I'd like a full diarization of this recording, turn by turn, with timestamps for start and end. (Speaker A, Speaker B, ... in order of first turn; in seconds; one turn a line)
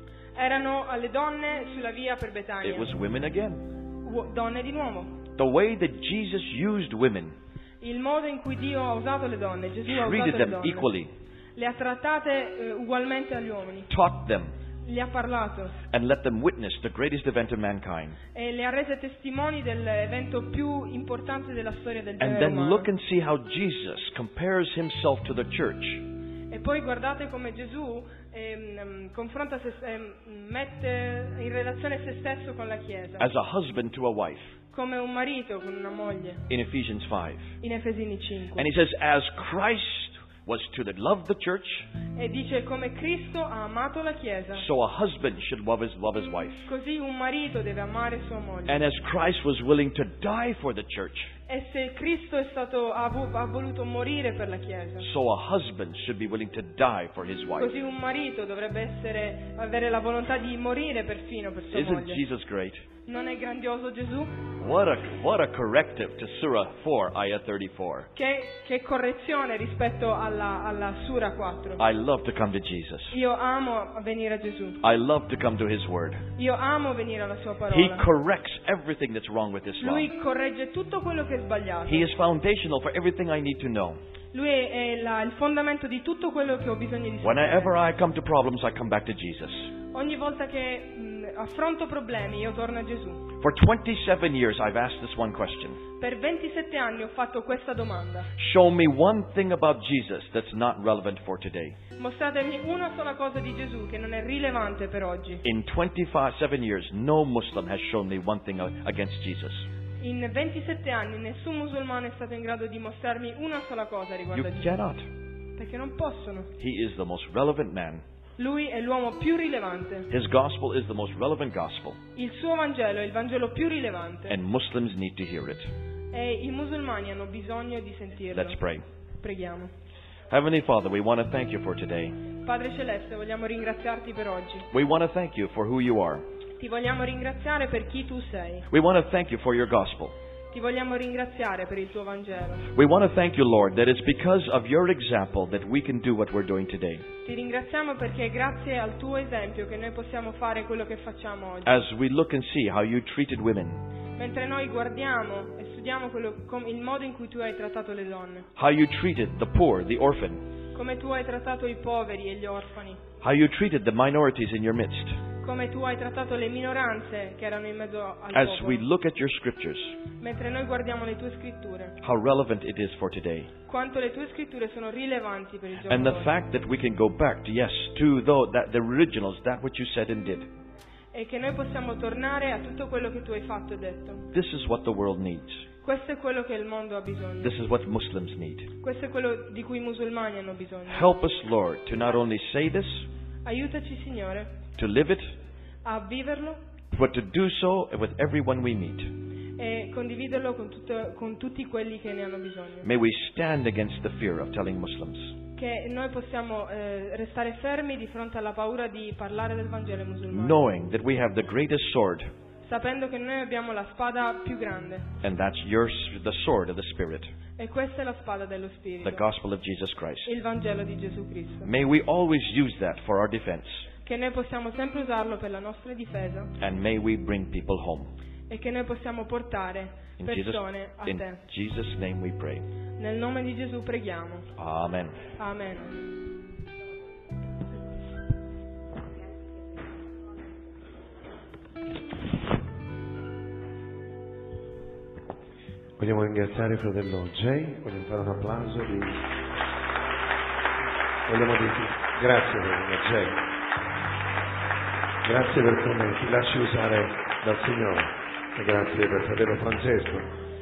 Speaker A: 0.3-2.9
Speaker B: 2.6-3.6
Speaker A: 4.0-5.2
Speaker B: 5.3-7.3
Speaker A: 7.8-10.9
Speaker B: 9.9-11.1
Speaker A: 11.6-13.9
Speaker B: 13.9-14.5
Speaker A: 14.8-15.8
Speaker B: 15.9-18.2
Speaker A: 18.3-22.9
Speaker B: 22.2-26.0
Speaker A: 26.5-33.3
Speaker B: 33.2-34.5
Speaker A: 34.7-36.4
Speaker B: 36.5-37.5
Speaker A: 37.6-38.7
Speaker B: 38.6-41.9
Speaker A: 42.2-44.6
Speaker B: 44.5-46.7
Speaker A: 46.7-48.8
Speaker B: 48.7-51.3
Speaker A: 51.5-55.1
Speaker B: 55.0-57.7
Speaker A: 57.6-62.2
Speaker B: 61.7-62.8
Speaker A: 63.1-64.4
Speaker B: 64.6-68.1
Speaker A: 68.2-71.8
Speaker B: 71.8-73.2
Speaker A: 73.1-74.8
Speaker B: 74.8-76.2
Speaker A: 76.4-78.0
Speaker B: 77.7-80.1
Speaker A: 79.8-82.1
Speaker B: 81.8-84.0
Speaker A: 84.3-87.7
Speaker B: 87.2-89.7
Speaker A: 89.9-93.3
Speaker B: 93.4-95.8
Speaker A: 96.0-98.3
Speaker B: 98.4-101.8
Speaker A: 102.0-105.4
Speaker B: 105.4-109.7
Speaker A: 110.0-114.7
Speaker B: 114.3-115.1
Speaker A: 115.6-116.5
Speaker B: 116.6-118.0
Speaker A: 118.4-120.1
Speaker B: 120.1-122.0
Speaker A: 122.2-124.3
Speaker B: 124.3-125.7
Speaker A: 126.1-128.6
Speaker B: 128.3-128.8
Speaker A: 129.2-129.7
Speaker B: 130.3-132.2
Speaker A: 132.4-134.7
Speaker B: 134.7-136.2
Speaker A: 136.6-138.7
Speaker B: 138.7-140.1
Speaker A: 140.5-142.7
Speaker B: 142.7-147.1
Speaker A: 147.2-151.7
Speaker B: 151.6-153.8
Speaker A: 154.2-158.5
Speaker B: 158.6-160.4
Speaker A: 160.7-163.0
Speaker B: 163.2-165.2
Speaker A: 165.4-168.8
Speaker B: 168.3-170.0
Speaker A: 170.2-171.9
Speaker B: 172.0-173.5
Speaker A: 173.7-176.3
Speaker B: 175.9-180.5
Speaker A: 181.1-184.2
Speaker B: 184.3-185.7
Speaker A: 185.8-187.5
Speaker B: 187.4-188.7
Speaker A: 188.8-191.1
Speaker B: 190.9-193.1
Speaker A: 193.4-194.5
Speaker B: 194.8-195.3
Speaker A: 195.8-196.6
Speaker B: 196.9-199.1
Speaker A: 199.6-202.8
Speaker B: 202.8-205.3
Speaker A: 205.6-210.6
Speaker B: 210.3-212.3
Speaker A: 212.6-215.1
Speaker B: 215.2-217.3
Speaker A: 217.6-219.3
Speaker B: 219.0-220.3
Speaker A: 220.2-221.7
Speaker B: 221.6-223.9
Speaker A: 224.0-226.5
Speaker B: 226.6-228.1
Speaker A: 228.5-231.4
Speaker B: 230.2-232.6
Speaker A: 233.0-234.5
Speaker B: 234.6-235.2
Speaker A: 235.4-236.0
Speaker C: 246.0-249.2
Speaker C: 251.2-253.5
Speaker C: 255.2-260.2